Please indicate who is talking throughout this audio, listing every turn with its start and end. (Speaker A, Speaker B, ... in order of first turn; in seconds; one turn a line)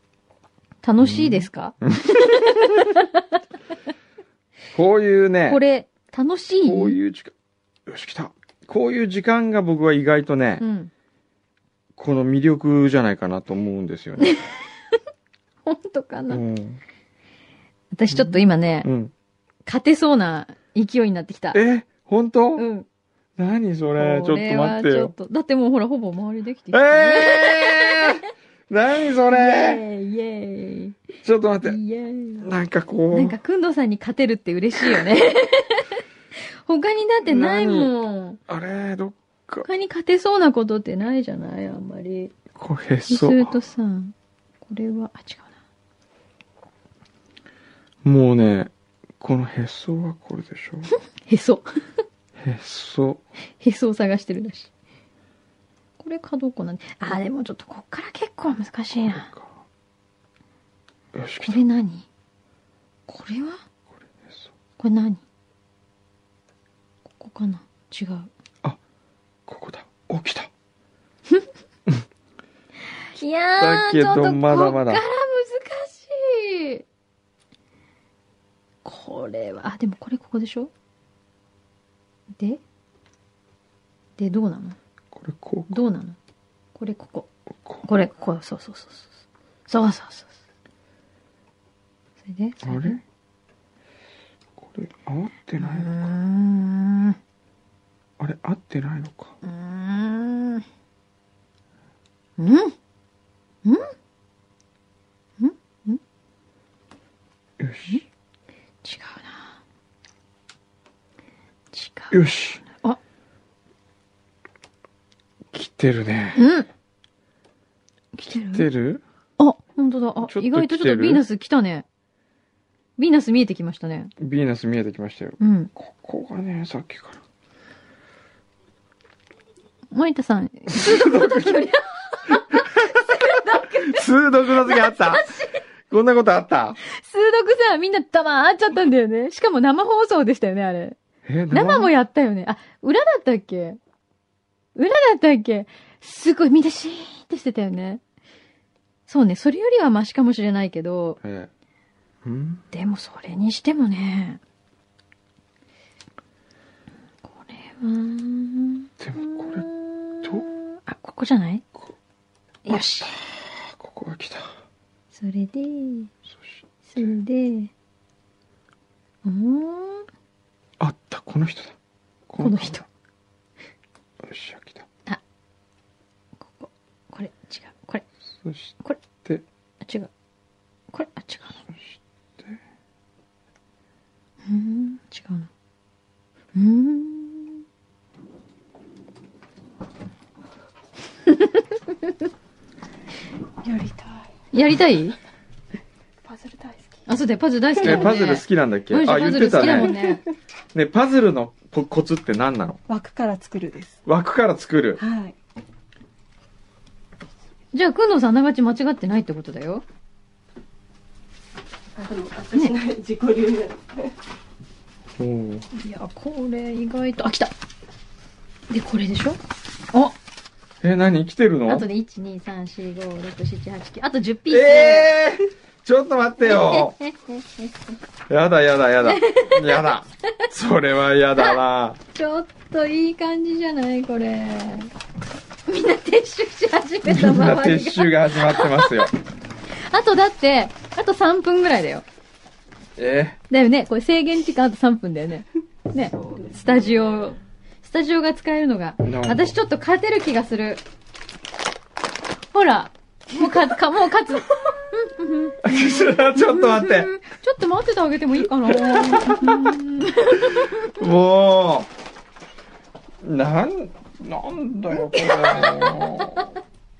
Speaker A: 0.8-3.2
Speaker B: 1.0-2.9
Speaker B: 4.7-5.6
Speaker A: 5.5-7.0
Speaker B: 6.6-7.3
Speaker B: 7.8-10.6
Speaker A: 10.6-10.9
Speaker B: 12.0-14.3
Speaker A: 15.7-16.4
Speaker B: 16.3-16.8
Speaker A: 17.9-18.9
Speaker B: 18.1-19.1
Speaker A: 19.6-21.6
Speaker B: 21.5-22.6
Speaker A: 22.6-22.9
Speaker B: 23.4-25.1
Speaker A: 24.0-28.2
Speaker B: 26.7-29.8
Speaker A: 29.3-31.0
Speaker B: 31.2-31.8
Speaker A: 31.6-32.5
Speaker B: 32.4-33.4
Speaker A: 33.1-36.0
Speaker A: 36.6-38.4
Speaker B: 37.2-37.9
Speaker B: 38.5-39.6
Speaker A: 39.6-42.3
Speaker B: 42.5-43.5
Speaker A: 43.1-44.1
Speaker A: 44.6-45.5
Speaker B: 48.0-50.9
Speaker A: 51.2-51.7
Speaker B: 52.4-53.2
Speaker A: 53.6-54.7
Speaker A: 56.0-59.3
Speaker B: 59.0-59.6
Speaker B: 61.1-61.6
Speaker A: 61.4-62.1
Speaker A: 63.1-63.6
Speaker B: 64.2-64.5
Speaker A: 64.8-65.2
Speaker A: 67.1-68.3
Speaker B: 69.5-70.5
Speaker A: 73.1-76.8
Speaker B: 73.6-75.0
Speaker A: 78.8-80.7
Speaker A: 84.2-84.8
Speaker B: 85.1-85.8
Speaker A: 85.7-86.2
Speaker A: 86.7-87.3
Speaker A: 87.8-89.1
Speaker A: 89.7-90.3
Speaker A: 92.2-93.0
Speaker B: 92.6-93.0
Speaker B: 94.6-96.0
Speaker A: 95.6-97.2
Speaker B: 98.2-99.3
Speaker A: 99.4-100.6
Speaker A: 102.4-102.7
Speaker A: 105.4-106.0
Speaker B: 107.6-108.0
Speaker A: 108.8-109.6
Speaker A: 111.7-113.0
Speaker B: 112.1-112.6
Speaker B: 115.5-116.5
Speaker A: 116.3-116.7
Speaker A: 118.1-118.7
Speaker B: 118.3-119.0
Speaker A: 119.4-121.8
Speaker B: 120.2-121.2
Speaker A: 123.0-124.1
Speaker B: 124.2-127.2
Speaker A: 125.4-125.7
Speaker A: 129.9-135.6
Speaker B: 130.7-131.7
Speaker B: 132.3-132.6
Speaker B: 133.2-135.3
Speaker B: 135.9-136.8
Speaker A: 136.9-141.0
Speaker B: 141.2-141.9
Speaker A: 141.5-143.8
Speaker A: 144.7-148.0
Speaker A: 149.1-151.2
Speaker B: 151.2-151.5
Speaker B: 152.2-152.6
Speaker A: 152.7-154.4
Speaker A: 157.3-161.6
Speaker B: 159.0-159.7
Speaker A: 162.7-163.1
Speaker B: 162.7-164.5
Speaker A: 165.1-166.1
Speaker B: 166.3-167.1
Speaker A: 166.8-167.7
Speaker A: 169.2-170.1
Speaker B: 170.8-171.8
Speaker B: 172.3-172.8
Speaker A: 172.4-172.9
Speaker B: 174.2-174.8
Speaker A: 176.4-178.0
Speaker B: 178.4-179.4
Speaker A: 179.8-180.1
Speaker A: 180.9-181.6
Speaker B: 181.7-182.6
Speaker A: 184.4-185.5
Speaker A: 186.5-187.6
Speaker A: 191.3-191.6
Speaker C: 193.6-194.3
Speaker A: 194.5-195.2
Speaker C: 196.2-197.0
Speaker A: 197.1-200.2
Speaker B: 197.8-199.9
Speaker B: 200.7-202.8
Speaker C: 202.9-204.0
Speaker B: 204.1-205.0
Speaker C: 205.0-205.3
Speaker A: 207.7-209.8
Speaker C: 211.9-214.1
Speaker B: 215.2-215.7
Speaker A: 215.7-217.5
Speaker A: 218.7-219.4
Speaker B: 220.8-221.8
Speaker A: 221.7-225.1
Speaker B: 224.5-226.9
Speaker A: 226.4-227.7
Speaker B: 228.3-232.0
Speaker A: 229.0-230.0
Speaker A: 231.3-231.6
Speaker A: 232.1-234.9
Speaker A: 235.7-239.1
Speaker B: 237.0-239.1
Speaker A: 239.8-242.0
Speaker B: 243.0-243.4
Speaker A: 243.5-250.8
Speaker B: 249.0-249.5
Speaker A: 252.5-260.9
Speaker B: 255.6-257.1
Speaker B: 258.6-259.8
Speaker B: 260.3-261.9
Speaker B: 263.2-266.5
Speaker A: 264.9-266.5